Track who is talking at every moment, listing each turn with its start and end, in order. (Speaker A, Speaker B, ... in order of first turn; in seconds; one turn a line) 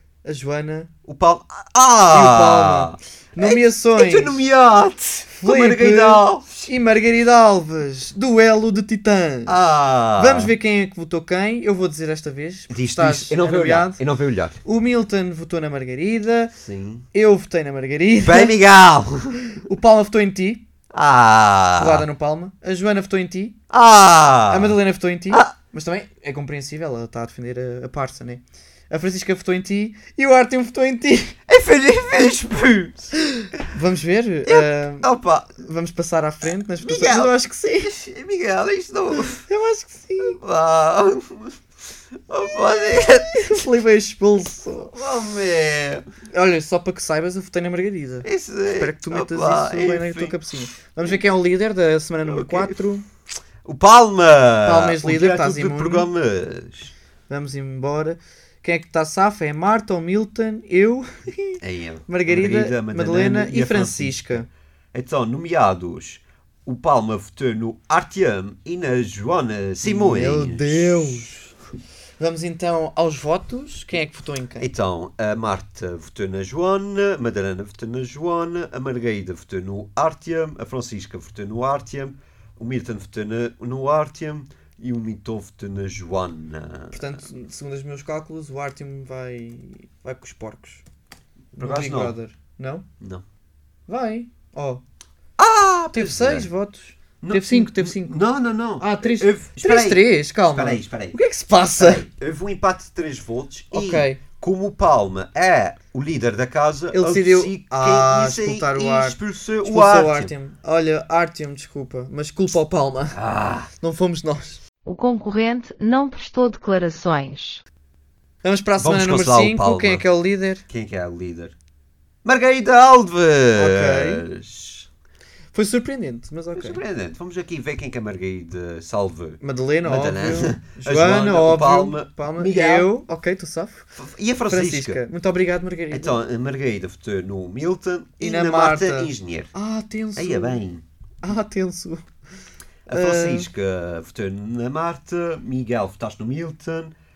Speaker A: 0.2-0.9
Speaker B: 1.0-6.6
Speaker A: 2.1-4.5
Speaker A: 5.3-9.6
Speaker B: 9.4-10.5
Speaker A: 10.2-14.0
Speaker B: 12.7-14.6
Speaker A: 14.6-16.5
Speaker B: 16.6-17.1
Speaker A: 17.1-18.5
Speaker B: 18.2-19.4
Speaker A: 19.5-20.6
Speaker B: 20.9-22.1
Speaker A: 21.8-23.6
Speaker B: 23.7-25.5
Speaker A: 24.5-31.4
Speaker B: 31.5-33.1
Speaker A: 33.6-37.9
Speaker B: 34.5-35.6
Speaker B: 36.8-39.4
Speaker A: 39.4-40.4
Speaker B: 40.2-41.6
Speaker B: 42.3-43.6
Speaker A: 43.3-44.9
Speaker B: 44.9-46.0
Speaker A: 46.3-53.0
Speaker B: 48.2-50.5
Speaker B: 52.2-52.8
Speaker B: 53.6-56.9
Speaker A: 54.6-56.1
Speaker A: 57.3-64.5
Speaker B: 61.6-71.4
Speaker A: 69.8-71.5
Speaker A: 72.2-74.7
Speaker B: 74.6-87.2
Speaker A: 86.9-90.8
Speaker B: 91.5-92.2
Speaker A: 91.6-92.8
Speaker A: 93.9-94.8
Speaker B: 95.4-96.5
Speaker A: 95.9-98.2
Speaker B: 97.2-101.2
Speaker A: 98.8-102.1
Speaker B: 101.8-110.3
Speaker A: 103.7-104.2
Speaker A: 106.9-113.2
Speaker B: 113.1-113.7
Speaker A: 113.8-114.6
Speaker C: 114.8-117.6
Speaker A: 118.4-120.6
Speaker B: 118.8-120.0
Speaker B: 120.7-121.5
Speaker B: 122.2-124.9
Speaker A: 123.5-124.2
Speaker A: 125.5-126.8
Speaker B: 126.5-132.9
Speaker A: 129.4-133.9
Speaker B: 133.9-135.0
Speaker A: 134.5-136.2
Speaker B: 135.9-139.5
Speaker A: 138.2-140.6
Speaker B: 140.1-140.8
Speaker A: 141.2-142.1
Speaker B: 142.9-146.9
Speaker A: 142.9-143.5